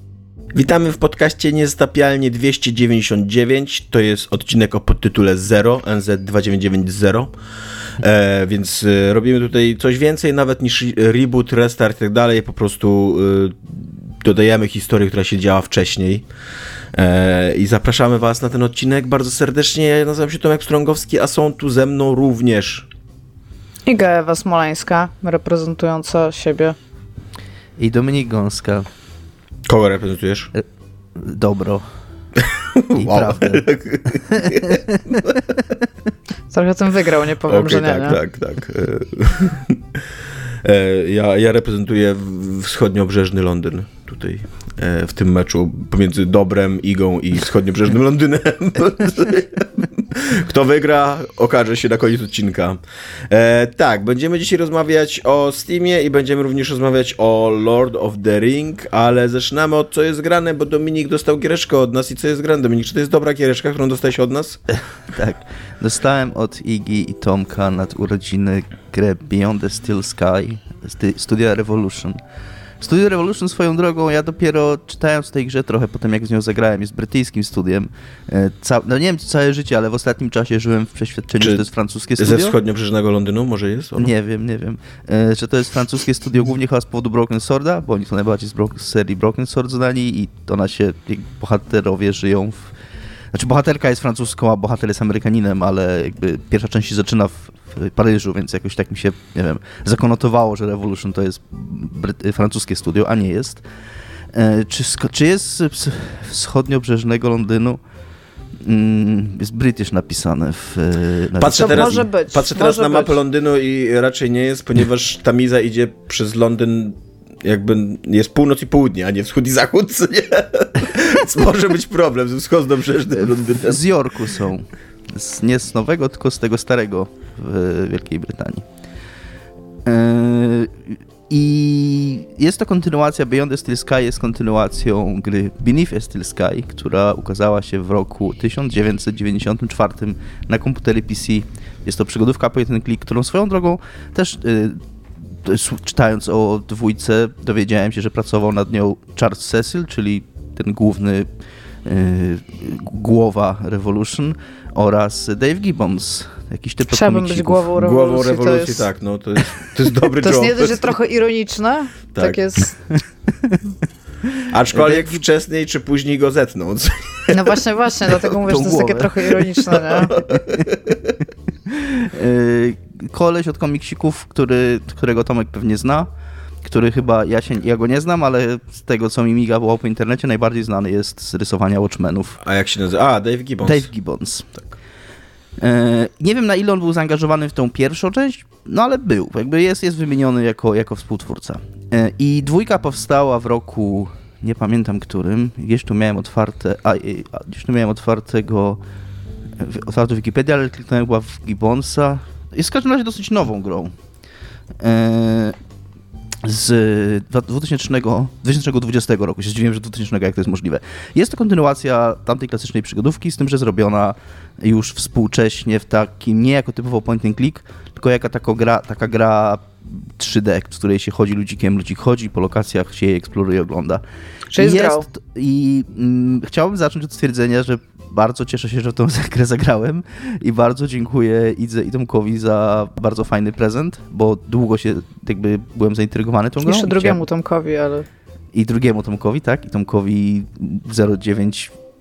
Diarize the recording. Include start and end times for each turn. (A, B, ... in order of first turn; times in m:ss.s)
0:00.5-0:07.3 A
0:08.0-0:16.2 A
0:17.0-0:22.9 A
0:23.9-0:26.8 B
0:27.8-0:28.9 C
0:29.7-0:30.5 A
0:31.2-0:31.8 C
0:32.4-0:35.4 A
0:33.0-0:33.7 C
0:34.3-0:35.0 C
0:36.5-0:38.2 B
0:37.5-0:39.8 A
0:40.6-1:04.6 A
1:04.7-1:12.2 C
1:12.8-1:22.6 C
1:22.2-1:24.1 A
1:24.0-1:32.7 C
1:33.3-1:43.6 C
1:44.3-1:47.8 C
1:48.6-1:52.0 C
1:51.4-2:03.8 A
1:51.5-1:53.2 B
2:03.6-2:08.7 C
2:09.9-2:24.8 C
2:25.4-2:31.3 C
2:31.8-2:37.7 C
2:36.9-2:38.9 B
2:37.8-2:40.9 A
2:40.2-2:42.8 B
2:43.3-2:43.6 C
2:44.5-2:48.1 A
2:44.7-2:45.2 C
2:47.3-2:50.1 B
2:48.4-2:49.2 C
2:49.7-2:51.0 A
2:50.2-2:50.8 C
2:51.7-2:56.1 C
2:56.6-3:02.4 C
3:02.4-3:03.9 A
3:03.6-3:04.5 C
3:05.6-3:18.8 C
3:19.6-3:23.9 C
3:24.8-3:25.6 C
3:26.4-3:44.0 C
3:44.5-3:45.1 B
3:44.6-3:57.2 C
3:56.6-3:58.1 B
3:58.5-4:01.7 C